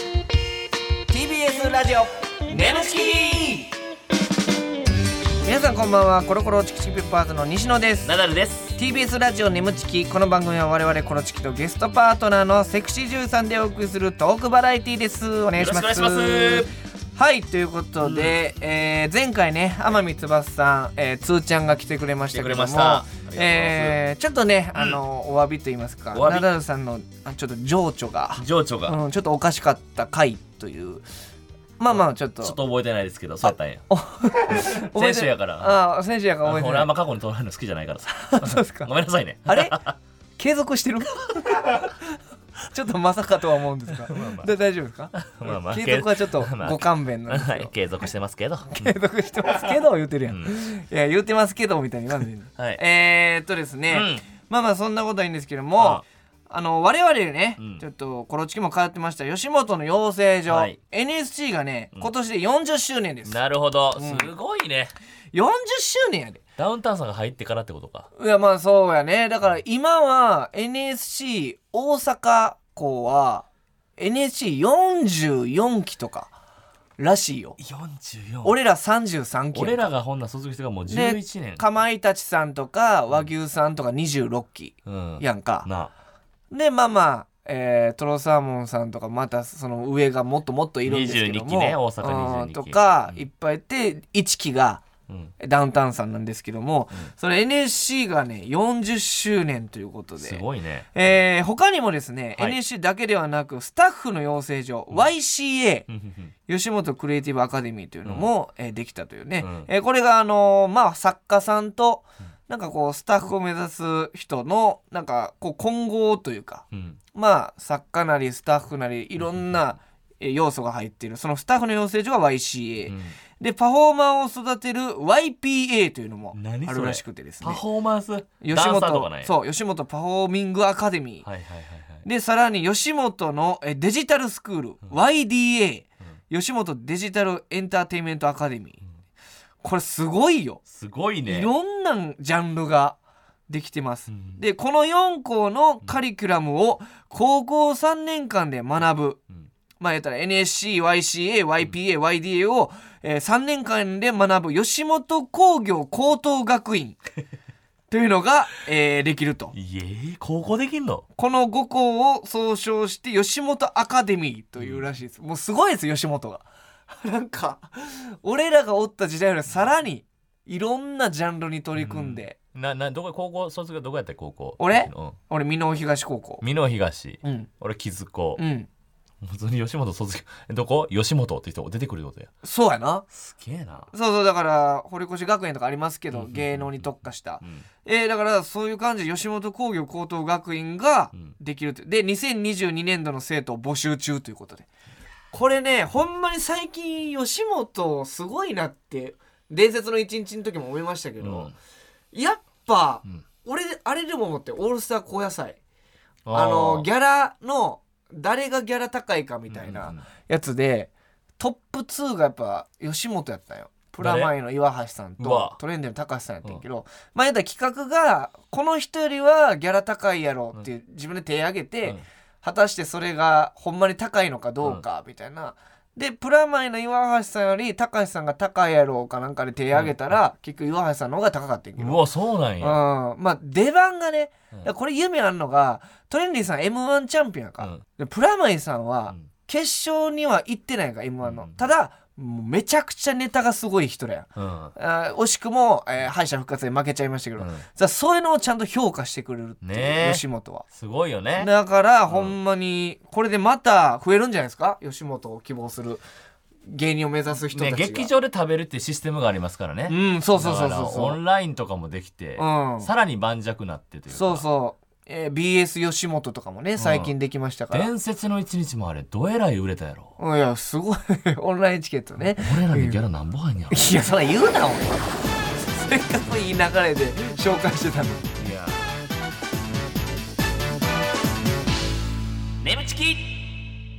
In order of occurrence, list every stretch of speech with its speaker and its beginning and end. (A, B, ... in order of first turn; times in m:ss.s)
0:01.1-0:03.7 A
0:05.4-0:08.1 A
0:08.0-0:08.7 B
0:08.7-0:31.0 A
0:15.6-0:16.7 B
0:18.0-0:18.3 B
0:22.3-0:24.0 B
0:24.7-0:25.0 B
0:26.1-0:26.5 B
0:28.4-0:29.0 B
0:31.8-0:32.6 A
0:31.9-0:33.8 B
0:33.4-0:36.9 A
0:34.4-0:35.8 B
0:36.4-0:39.9 B
0:38.1-0:38.9 A
0:39.4-0:39.8 A
0:40.4-0:41.9 A
0:42.7-0:47.7 A
0:44.0-0:44.5 B
0:45.2-0:49.0 B
0:48.7-1:03.4 A
0:50.3-0:50.6 B
0:53.9-0:54.2 B
0:55.8-0:56.0 B
0:57.6-0:57.8 B
1:00.5-1:00.8 B
1:03.2-1:04.9 B
1:03.9-1:04.3 A
1:05.3-1:06.4 A
1:06.6-1:08.1 B
1:08.2-1:13.5 A
1:14.0-1:16.3 A
1:17.0-1:17.6 A
1:17.6-1:18.6 B
1:18.4-1:19.8 A
1:19.5-1:21.6 B
1:20.9-1:25.7 A
1:24.8-1:25.9 B
1:26.5-1:34.8 A
1:30.8-1:33.2 B
1:35.4-1:40.4 A
1:40.2-1:40.9 B
1:40.9-1:45.9 A
1:45.9-1:46.3 B
1:46.5-2:07.6 A
1:49.4-1:49.7 B
1:56.7-1:57.0 B
2:02.8-2:03.2 B
2:06.3-2:09.3 B
2:08.4-2:11.3 A
2:11.2-2:12.0 B
2:12.0-2:18.8 A
2:19.6-2:20.6 A
2:20.7-2:21.5 B
2:21.2-2:29.2 A
2:24.1-2:24.4 B
2:29.8-2:37.0 A
2:37.9-2:39.5 A
2:39.5-2:41.0 B
2:41.2-2:52.4 A
2:44.6-2:44.8 B
2:51.8-2:55.2 B
2:54.6-2:56.4 A
2:56.4-2:58.4 B
2:57.2-2:57.5 A
2:58.4-2:58.7 A
2:59.2-3:02.3 B
3:02.4-3:03.1 A
3:03.1-3:03.9 B
3:03.9-3:14.7 A
3:06.1-3:07.6 B
3:15.3-3:21.5 A
3:21.2-3:21.5 B
3:22.1-3:25.6 A
3:26.2-3:26.9 B
3:26.3-3:52.0 A
3:29.5-3:30.0 B
3:34.0-3:34.3 B
3:35.2-3:35.6 B
3:49.7-3:50.2 B
3:51.8-3:52.8 B
3:52.6-4:10.7 A
4:01.2-4:01.6 B
4:04.4-4:04.7 B
4:07.4-4:07.6 B
4:09.6-4:11.5 B
4:11.4-4:16.0 A
4:12.1-4:12.3 B
4:16.6-4:18.1 A
4:17.5-4:24.4 B
4:19.9-4:21.2 A
4:22.4-4:22.9 A
4:24.1-4:27.9 A
4:26.8-4:27.1 B
4:27.7-4:30.1 B
4:30.2-4:33.0 A
4:32.4-4:33.8 B
4:33.7-4:35.0 A
4:35.6-4:38.3 A
4:38.4-4:38.9 B
4:42.6-4:43.5 B